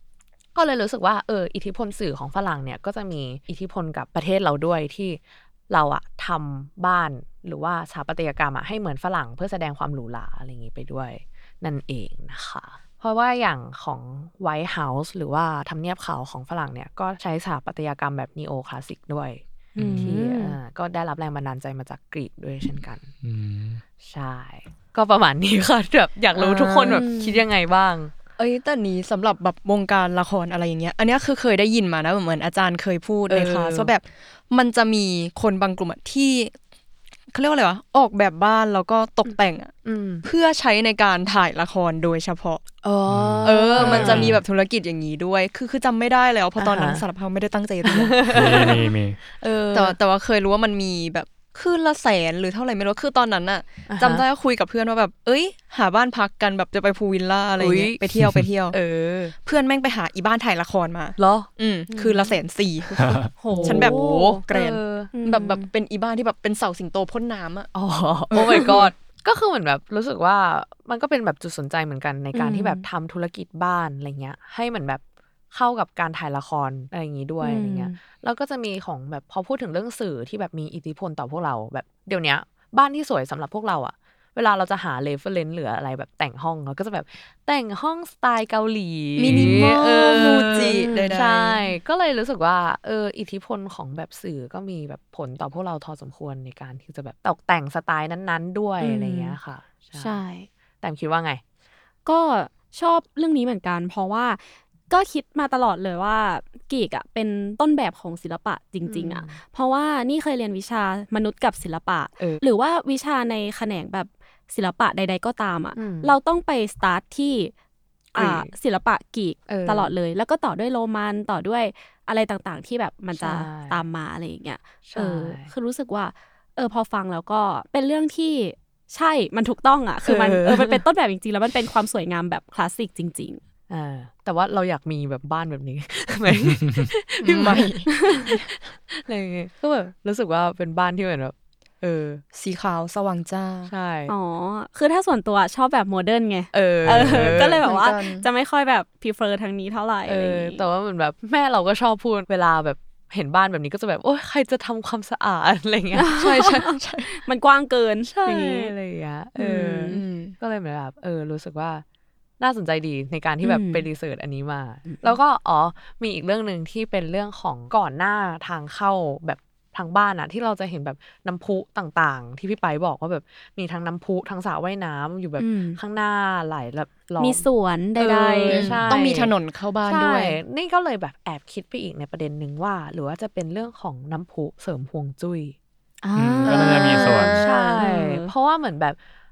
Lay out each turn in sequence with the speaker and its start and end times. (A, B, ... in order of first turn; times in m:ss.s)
0:00.5-0:23.1 A
0:19.7-0:20.6 B
0:19.8-0:20.1 C
0:23.2-0:23.8 C
0:24.0-0:28.1 A
0:26.4-0:27.1 D
0:26.9-0:27.4 B
0:28.4-0:36.5 D
0:33.3-0:33.9 A
0:37.3-0:39.7 D
0:39.8-0:40.2 A
0:40.2-0:42.6 D
0:42.8-0:44.4 A
0:43.1-0:44.4 C
0:43.4-0:48.8 D
0:46.6-0:47.0 A
0:47.8-0:50.0 A
0:48.3-0:49.2 C
0:49.7-0:58.8 D
0:53.9-0:54.2 A
0:57.6-0:58.0 A
0:58.2-0:58.4 C
0:58.7-0:59.3 A
0:59.4-1:07.7 D
1:01.2-1:02.3 A
1:03.0-1:03.3 C
1:03.4-1:04.4 B
1:03.5-1:05.1 A
1:05.1-1:05.6 B
1:07.7-1:40.2 A
1:08.3-1:08.9 D
1:12.3-1:12.8 B
1:17.4-1:18.0 B
1:29.2-1:31.6 D
1:29.3-1:29.7 C
1:30.4-1:30.7 B
1:38.8-1:39.3 B
1:40.0-1:40.5 B
1:40.8-1:41.4 A
1:42.0-1:57.5 B
1:48.8-1:49.4 A
1:52.2-1:52.4 A
1:55.8-1:56.1 A
1:58.1-2:13.4 B
1:58.1-1:58.5 A
1:59.5-1:59.9 A
2:03.1-2:03.8 A
2:04.8-2:05.5 A
2:10.0-2:10.8 A
2:13.7-2:22.2 A
2:17.2-2:17.9 D
2:22.3-2:23.7 D
2:23.6-2:24.1 A
2:24.1-2:30.6 B
2:26.5-2:27.6 A
2:27.0-2:28.2 D
2:30.1-2:36.2 A
2:35.9-2:38.7 B
2:36.1-2:37.1 D
2:38.0-2:41.8 A
2:39.4-2:40.0 B
2:39.8-2:40.3 D
2:42.4-2:57.4 A
2:43.4-2:43.8 B
2:55.4-2:55.8 B
2:57.2-2:58.7 B
2:58.0-3:05.6 A
2:58.5-3:00.4 D
3:06.0-3:08.3 B
3:06.2-3:07.3 C
3:06.4-3:07.5 D
3:07.1-3:09.0 A